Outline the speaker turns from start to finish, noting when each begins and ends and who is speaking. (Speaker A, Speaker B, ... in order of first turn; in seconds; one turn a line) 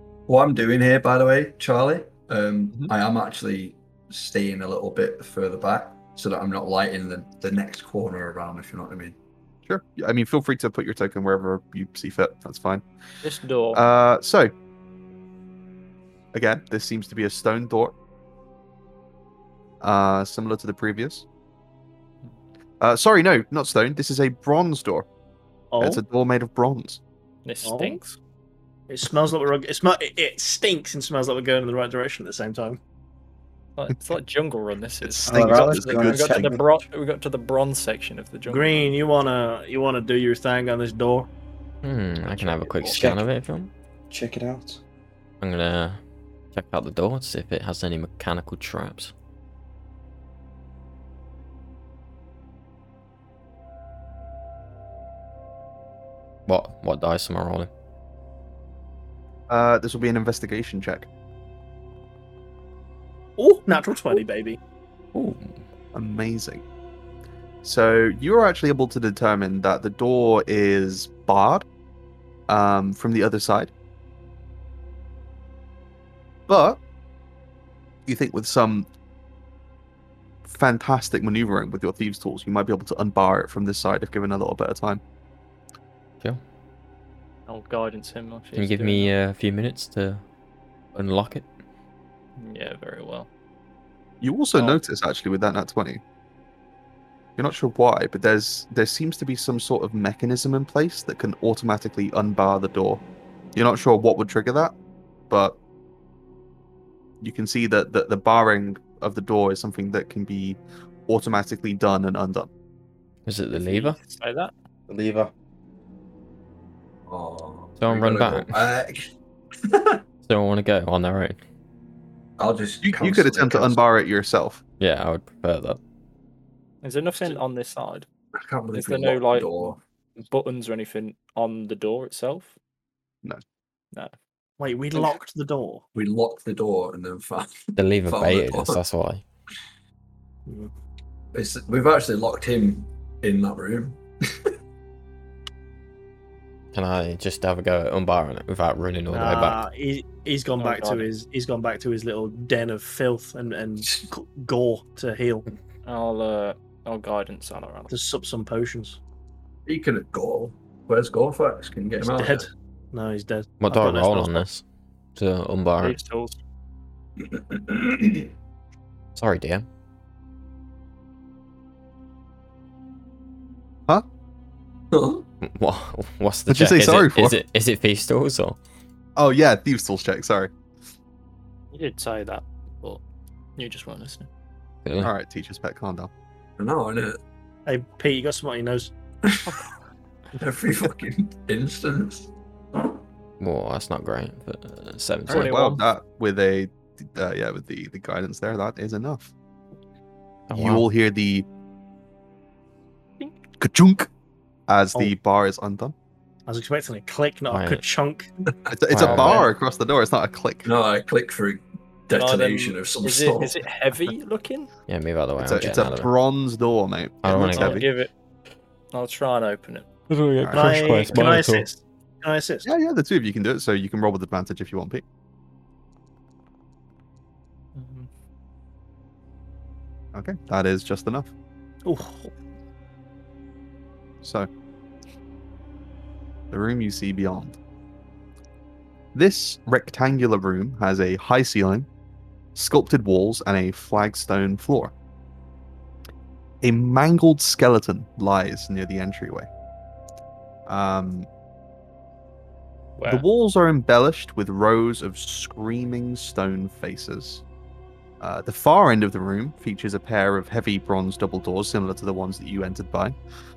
Speaker A: 0.3-9.2
Speaker B: 9.7-12.8
Speaker C: 13.2-13.8
Speaker B: 13.7-14.5
Speaker B: 16.3-17.9
Speaker B: 19.8-21.2
Speaker B: 22.8-25.1
Speaker D: 25.7-26.0
Speaker B: 25.8-27.0
Speaker C: 27.4-28.2
Speaker D: 27.6-28.0
Speaker D: 28.9-32.8
Speaker C: 33.8-39.0
Speaker B: 35.0-36.6
Speaker E: 35.3-36.7
Speaker D: 38.5-41.3
Speaker F: 41.8-43.7
Speaker C: 42.2-42.9
Speaker E: 42.9-43.2
Speaker E: 44.1-44.8
Speaker F: 45.4-46.0
Speaker F: 46.5-49.1
Speaker F: 56.5-57.7
Speaker B: 59.5-61.1
Speaker D: 63.4-64.6
Speaker F: 65.1-65.5
Speaker B: 65.9-66.6
Speaker B: 67.6-71.6
Speaker B: 72.5-73.7
Speaker B: 76.5-76.8
Speaker B: 78.0-78.9
Speaker B: 80.4-85.0
Speaker C: 87.5-89.1
Speaker F: 88.5-90.2
Speaker F: 90.9-91.5
Speaker C: 92.4-93.3
Speaker B: 94.2-96.0
Speaker C: 94.5-94.8
Speaker B: 97.4-103.0
Speaker B: 103.5-104.7
Speaker B: 105.3-105.6
Speaker B: 107.2-112.5
Speaker F: 113.2-114.0
Speaker C: 113.5-114.5
Speaker E: 114.9-115.3
Speaker A: 117.1-119.1
Speaker F: 117.8-118.6
Speaker A: 119.6-120.0
Speaker F: 120.2-121.4
Speaker A: 122.4-123.8
Speaker B: 122.8-124.6
Speaker F: 124.8-125.8
Speaker C: 126.8-128.1
Speaker A: 128.3-129.8
Speaker C: 128.7-132.5
Speaker D: 134.6-135.8
Speaker A: 135.9-138.8
Speaker F: 137.8-139.2
Speaker A: 141.3-144.5
Speaker F: 146.7-149.6
Speaker D: 149.1-155.4
Speaker C: 150.6-151.1
Speaker C: 155.8-157.9
Speaker D: 157.9-159.0
Speaker A: 159.7-162.5
Speaker D: 162.0-164.4
Speaker F: 163.6-164.6
Speaker F: 165.2-166.0
Speaker C: 165.8-166.4
Speaker A: 167.2-168.3
Speaker F: 169.2-169.6
Speaker A: 174.9-175.2
Speaker F: 175.4-178.6
Speaker B: 176.5-177.4
Speaker B: 179.2-180.5
Speaker C: 181.7-183.0
Speaker C: 183.6-184.3
Speaker F: 184.8-185.1
Speaker B: 185.0-186.1
Speaker A: 186.6-187.2
Speaker D: 187.7-188.9
Speaker A: 189.2-189.6
Speaker A: 190.3-193.0
Speaker F: 193.4-195.5
Speaker B: 195.3-199.3
Speaker C: 195.3-195.8
Speaker F: 200.5-200.8
Speaker B: 200.5-201.5
Speaker B: 203.6-204.1
Speaker B: 204.7-205.9
Speaker D: 206.5-208.3
Speaker F: 207.5-207.8
Speaker B: 208.7-210.7
Speaker F: 208.9-209.5
Speaker A: 210.6-213.6
Speaker C: 212.1-214.7
Speaker F: 214.9-216.1
Speaker B: 215.4-217.9
Speaker F: 217.2-217.8
Speaker C: 217.5-218.1
Speaker C: 218.9-221.5
Speaker B: 220.4-220.7
Speaker D: 220.5-222.7
Speaker B: 222.6-225.0
Speaker C: 227.7-228.1
Speaker B: 230.1-231.3
Speaker D: 231.8-232.3
Speaker B: 234.2-234.5
Speaker B: 236.5-237.6
Speaker B: 239.1-241.9
Speaker B: 242.5-244.9
Speaker B: 246.6-249.5
Speaker B: 250.7-251.3
Speaker C: 253.0-253.2
Speaker B: 253.1-257.4
Speaker B: 258.2-263.1